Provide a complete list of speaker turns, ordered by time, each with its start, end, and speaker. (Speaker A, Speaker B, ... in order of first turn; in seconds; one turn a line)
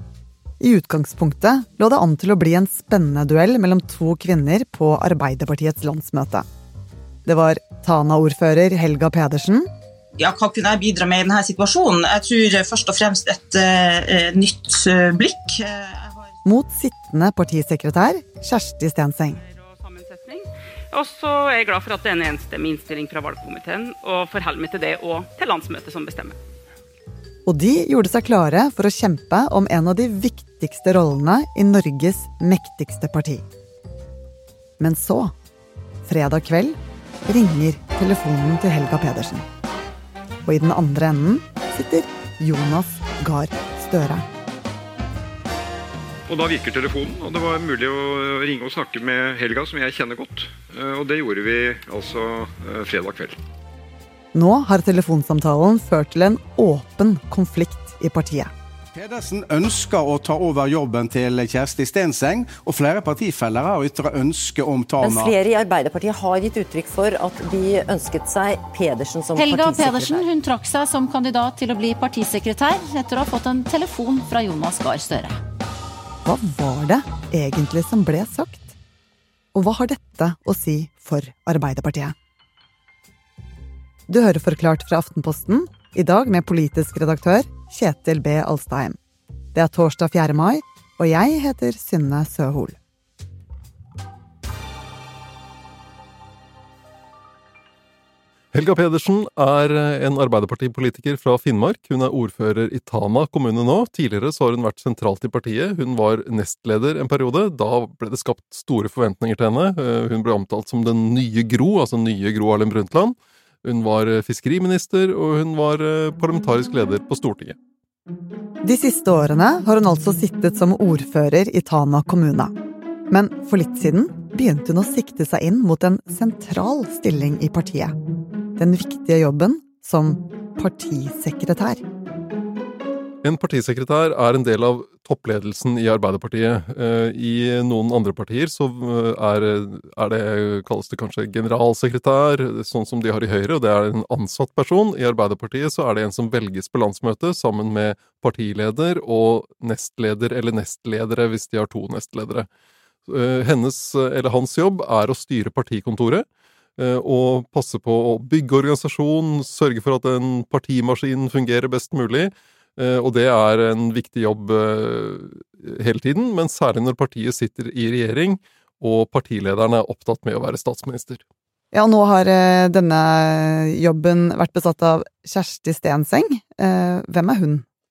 Speaker A: 0.6-6.5
Speaker A: 7.2-9.7
Speaker B: 10.2-16.2
Speaker A: 16.4-19.4
Speaker C: 19.3-26.4
Speaker A: 27.4-33.4
Speaker A: 34.8-35.3
Speaker A: 36.0-39.4
Speaker A: 40.4-44.2
Speaker D: 46.3-47.5
Speaker D: 48.7-50.4
Speaker D: 51.0-53.3
Speaker A: 54.3-58.5
Speaker E: 58.9-65.4
Speaker F: 65.0-70.2
Speaker G: 69.3-75.4
Speaker A: 76.2-78.7
Speaker A: 79.5-82.1
Speaker A: 84.1-89.0
Speaker A: 89.5-92.8
Speaker H: 98.5-117.5
Speaker A: 118.6-122.5
Speaker A: 123.1-127.9
Speaker A: 128.6-131.8
Speaker H: 133.2-152.5
Speaker H: 153.1-156.2
Speaker H: 156.8-171.2
Speaker A: 171.7-177.6